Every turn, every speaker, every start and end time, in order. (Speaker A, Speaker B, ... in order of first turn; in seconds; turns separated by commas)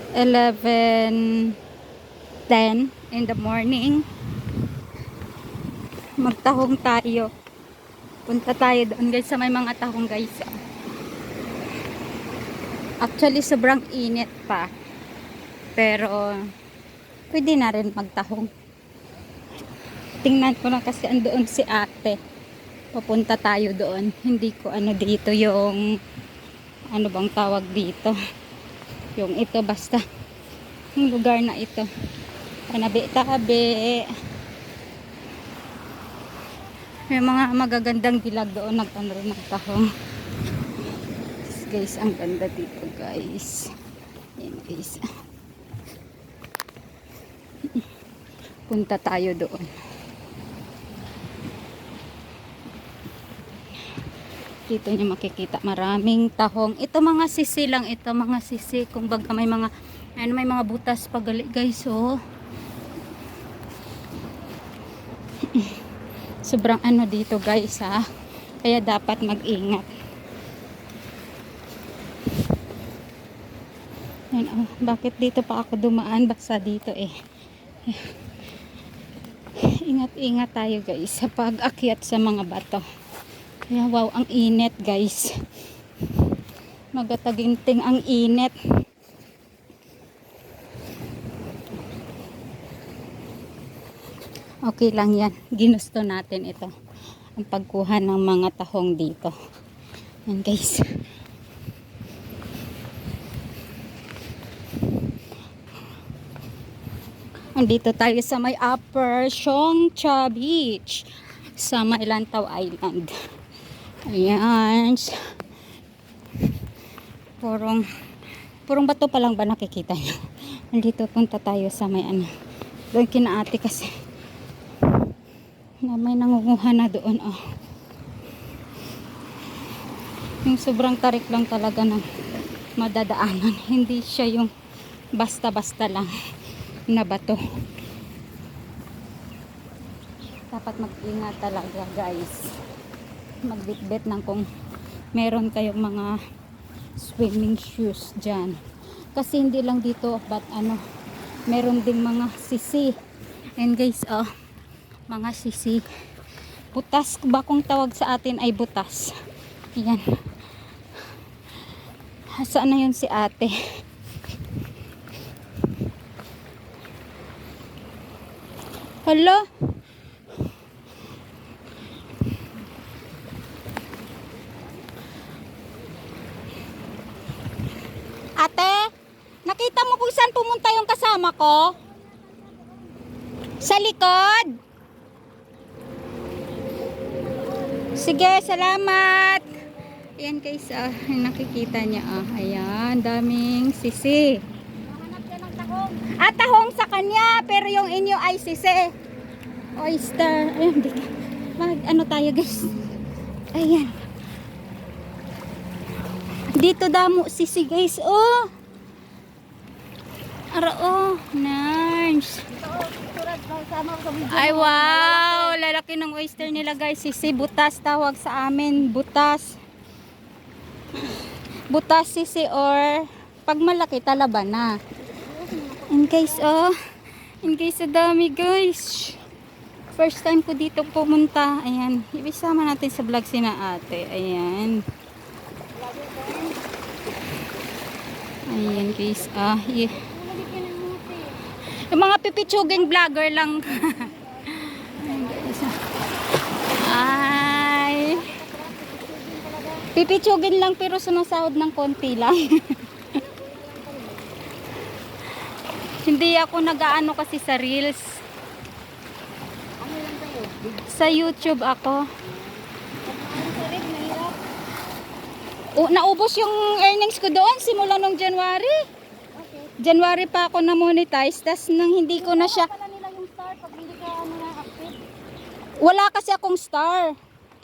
Speaker A: 0.1-1.6, Speaker A: 2.5-4.0, Speaker A: 6.2-7.3, Speaker A: 8.3-10.5, Speaker A: 13.0-14.7, Speaker A: 15.8-16.3, Speaker A: 17.3-18.5, Speaker A: 20.2-22.2, Speaker A: 22.9-25.8, Speaker A: 26.9-28.1, Speaker A: 29.2-30.0, Speaker A: 31.0-31.9, Speaker A: 32.7-34.1, Speaker A: 37.1-39.9, Speaker A: 41.5-43.7, Speaker A: 44.4-45.1, Speaker A: 48.7-49.7, Speaker A: 54.7-62.1, Speaker A: 65.5-65.8, Speaker A: 66.5-68.0, Speaker A: 68.6-69.9, Speaker A: 74.3-77.1, Speaker A: 79.8-82.8, Speaker A: 83.7-85.3, Speaker A: 87.0-88.5, Speaker A: 94.7-96.7, Speaker A: 97.4-99.3, Speaker A: 100.3-100.9, Speaker A: 107.5-111.1, Speaker A: 111.6-113.1, Speaker A: 114.1-115.2, Speaker A: 117.4-117.8, Speaker A: 118.7-120.2, Speaker A: 120.7-122.3, Speaker A: 122.9-123.9, Speaker A: 125.8-127.4, Speaker A: 130.4-132.1, Speaker A: 132.8-134.5, Speaker A: 135.2-136.1, Speaker A: 136.9-137.4, Speaker A: 140.5-142.5, Speaker A: 143.4-144.5, Speaker A: 145.1-146.1, Speaker A: 147.0-148.6, Speaker A: 149.2-150.8, Speaker A: 151.5-152.9, Speaker A: 153.6-154.3, Speaker A: 155.1-155.8, Speaker A: 156.7-159.1, Speaker A: 159.8-160.0, Speaker A: 162.4-163.5, Speaker A: 169.1-169.4, Speaker A: 178.4-178.9, Speaker A: 179.5-181.8, Speaker B: 181.8-182.9, Speaker A: 183.6-184.5, Speaker B: 187.3-187.7, Speaker A: 188.0-189.5, Speaker A: 190.2-194.4, Speaker B: 194.8-196.1, Speaker A: 196.1-198.9, Speaker A: 199.8-202.7, Speaker A: 203.5-203.9, Speaker A: 206.5-208.5, Speaker A: 210.6-212.4, Speaker B: 212.5-215.6, Speaker A: 214.3-219.6, Speaker A: 221.7-224.7, Speaker B: 225.1-226.5, Speaker A: 225.9-226.8, Speaker A: 227.4-229.2, Speaker A: 230.0-234.8, Speaker B: 235.7-236.6, Speaker A: 238.5-240.0, Speaker B: 238.6-241.5, Speaker A: 241.9-245.8, Speaker B: 242.4-243.0, Speaker B: 243.8-245.8, Speaker B: 246.7-249.9, Speaker A: 246.8-248.2, Speaker A: 249.9-252.4, Speaker B: 253.1-254.4, Speaker A: 256.0-258.1, Speaker B: 259.8-261.7, Speaker A: 260.9-262.0, Speaker B: 263.0-264.4, Speaker A: 265.8-268.8, Speaker B: 269.3-269.8, Speaker A: 269.8-272.7, Speaker B: 272.2-275.0, Speaker A: 275.8-277.1